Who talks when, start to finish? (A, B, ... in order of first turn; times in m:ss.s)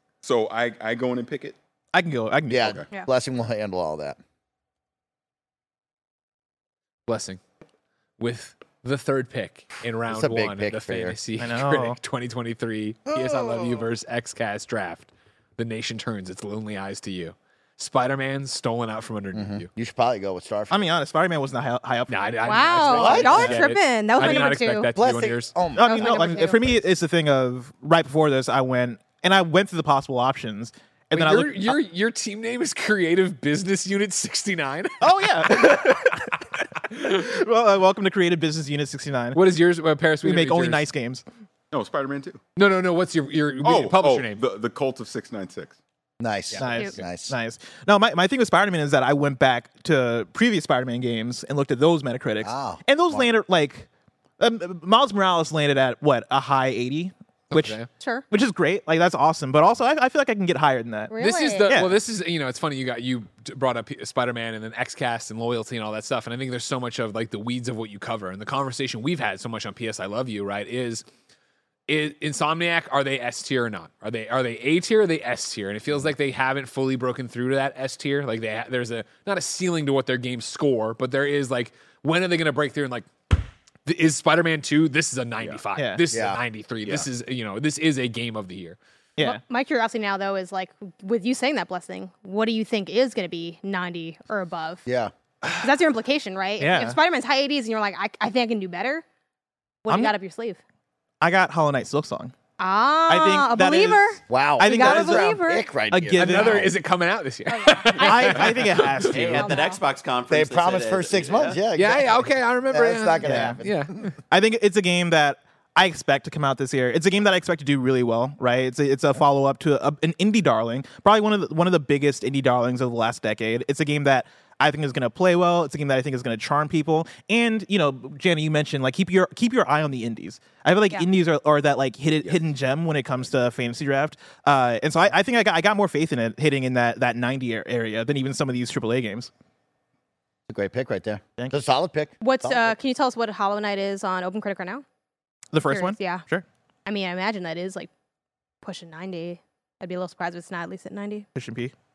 0:00.2-0:01.6 A
0:01.9-0:02.7 B
0:02.5-0:04.2 C
0:07.1-0:07.4 D
0:08.2-0:19.7 D
0:10.1-0:11.2 C
0:11.4-0:12.0 B
0:13.2-0:13.6 C
0:19.3-0:20.8 C
0:20.7-0:22.2 B
0:22.1-0:25.5 D
0:22.4-0:24.9 E
0:22.8-0:23.6 B
0:23.0-0:23.6 C
0:25.0-0:26.5 C
0:25.7-0:31.8 B
0:25.8-0:26.7 E
0:31.1-0:36.1 D
0:35.0-0:36.4 B
0:36.9-0:39.4 B
0:39.3-0:40.8 D
0:40.2-0:41.2 B
0:41.7-0:42.4 A
0:42.6-0:44.4 D
0:43.6-0:45.8 A
0:46.2-0:47.3 C
0:46.6-0:53.9 B
0:52.4-0:53.3 C
0:54.4-1:01.1 B
0:57.5-0:57.9 D
0:58.0-0:58.2 E
1:01.1-1:01.7 E
1:01.2-1:11.0 D
1:01.6-1:02.0 B
1:11.9-1:28.8 D
1:26.1-1:26.4 C
1:29.2-1:34.8 E
1:34.8-1:35.1 C
1:35.6-1:39.0 E
1:36.6-1:37.0 B
1:39.8-1:40.6 E
1:39.9-1:40.1 B
1:41.2-1:42.3 B
1:42.6-1:45.7 E
1:43.1-1:45.4 B
1:44.3-1:46.7 C
1:45.9-1:46.6 B
1:46.1-1:49.2 D
1:47.5-1:48.5 E
1:48.0-1:49.6 B
1:49.0-1:51.6 F
1:49.3-1:49.8 E
1:50.3-1:54.0 C
1:51.8-1:54.1 D
1:53.2-1:53.6 B
1:54.3-2:19.3 B
2:20.5-2:22.8 C
2:22.2-2:24.8 E
2:25.5-2:26.4 B
2:25.7-2:26.2 E
2:26.8-2:27.9 E
2:28.6-2:31.2 E
2:31.3-2:31.7 B